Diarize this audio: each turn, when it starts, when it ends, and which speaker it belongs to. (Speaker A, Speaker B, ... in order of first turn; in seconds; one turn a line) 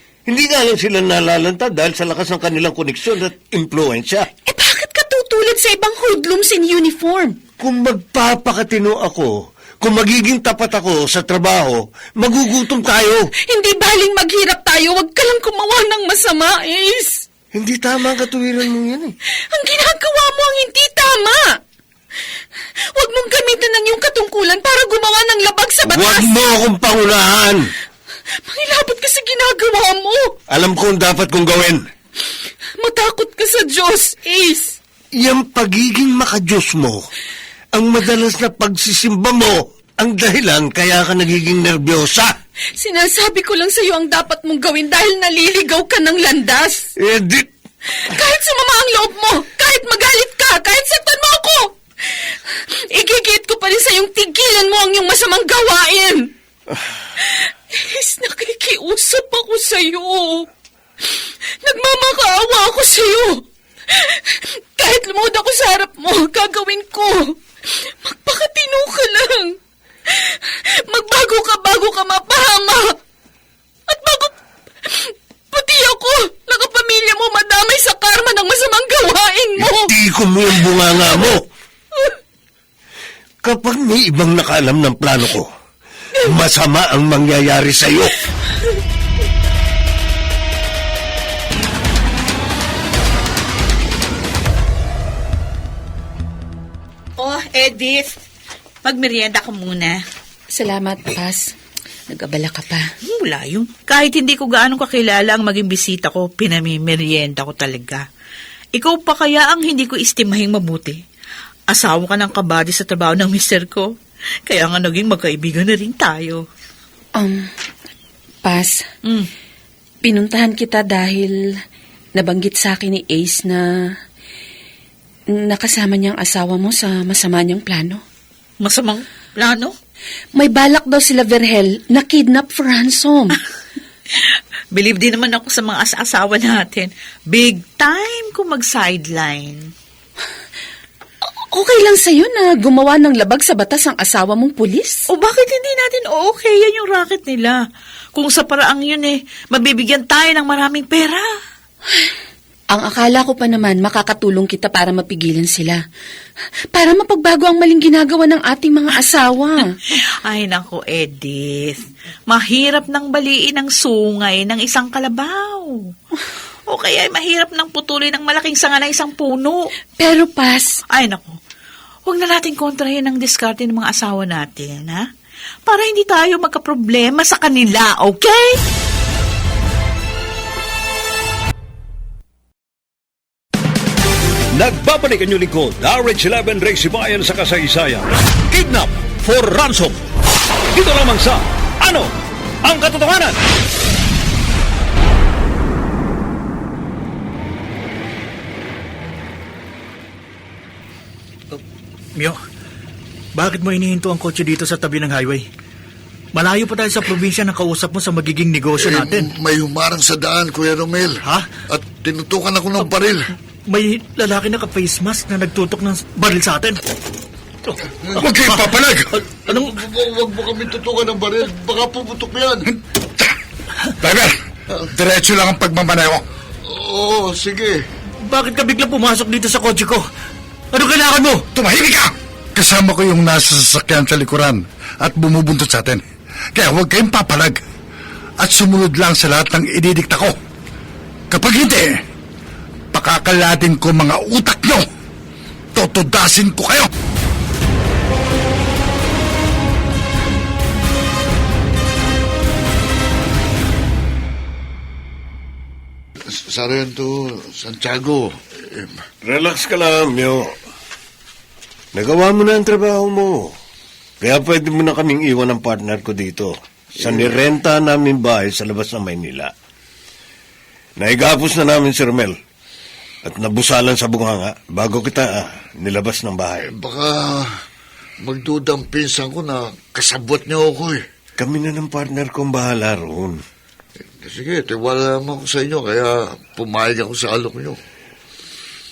Speaker A: 0.3-4.2
Speaker B: 4.5-7.4
Speaker A: 7.6-13.2
Speaker B: 13.5-17.2
Speaker A: 17.5-19.1
Speaker B: 19.5-21.5
Speaker B: 22.9-26.5
Speaker A: 25.8-27.6
Speaker B: 28.4-30.3
Speaker A: 30.5-31.8
Speaker B: 32.8-34.8
Speaker A: 35.1-37.1
Speaker A: 37.7-42.3
Speaker B: 42.8-46.9
Speaker A: 47.0-47.5
Speaker B: 47.9-51.7
Speaker B: 52.8-56.3
Speaker B: 57.2-60.5
Speaker B: 61.1-69.5
Speaker B: 70.1-72.9
Speaker B: 73.9-74.3
Speaker B: 74.8-79.9
Speaker A: 79.6-81.4
Speaker A: 83.4-85.5
Speaker A: 86.2-88.2
Speaker C: 97.2-98.2
Speaker C: 98.8-100.0
Speaker B: 100.5-101.4
Speaker B: 102.1-102.8
Speaker C: 103.0-108.0
Speaker C: 108.8-111.0
Speaker C: 111.7-113.9
Speaker C: 114.5-116.4
Speaker B: 117.2-117.5
Speaker B: 118.4-118.8
Speaker B: 120.0-121.3
Speaker B: 122.2-123.7
Speaker B: 125.4-128.0
Speaker C: 128.6-129.8
Speaker B: 130.3-133.4
Speaker C: 134.2-139.7
Speaker B: 141.5-145.0
Speaker C: 145.1-147.6
Speaker C: 148.1-151.2
Speaker B: 152.7-155.8
Speaker B: 156.7-159.7
Speaker C: 160.2-165.9
Speaker C: 166.7-169.7
Speaker B: 170.0-170.7
Speaker C: 170.9-171.4
Speaker C: 172.1-175.0
Speaker C: 175.7-178.6
Speaker D: 184.5-190.0
Speaker D: 190.7-192.1
Speaker D: 192.6-193.4
Speaker E: 202.1-202.4
Speaker E: 203.3-205.5
Speaker E: 206.3-209.3
Speaker F: 208.8-213.3
Speaker E: 211.2-211.5
Speaker E: 212.8-213.0
Speaker E: 213.7-216.8
Speaker G: 218.2-219.2
Speaker E: 219.5-219.7
Speaker F: 219.5-222.7
Speaker G: 222.7-223.3
Speaker G: 224.0-224.3
Speaker G: 224.9-226.2
Speaker F: 226.7-227.8
Speaker E: 228.2-230.1
Speaker E: 230.7-231.4
Speaker G: 231.5-236.0
Speaker G: 236.5-237.6
Speaker G: 238.4-240.3
Speaker G: 241.3-241.9
Speaker G: 242.9-244.8
Speaker G: 245.7-246.9
Speaker F: 256.5-258.9
Speaker A: 259.2-260.5
Speaker A: 261.9-263.5
Speaker A: 264.2-269.5
Speaker A: 271.0-272.4
Speaker A: 273.2-276.7
Speaker F: 276.8-277.5
Speaker F: 278.2-281.0
Speaker A: 281.4-283.4
Speaker F: 284.2-287.8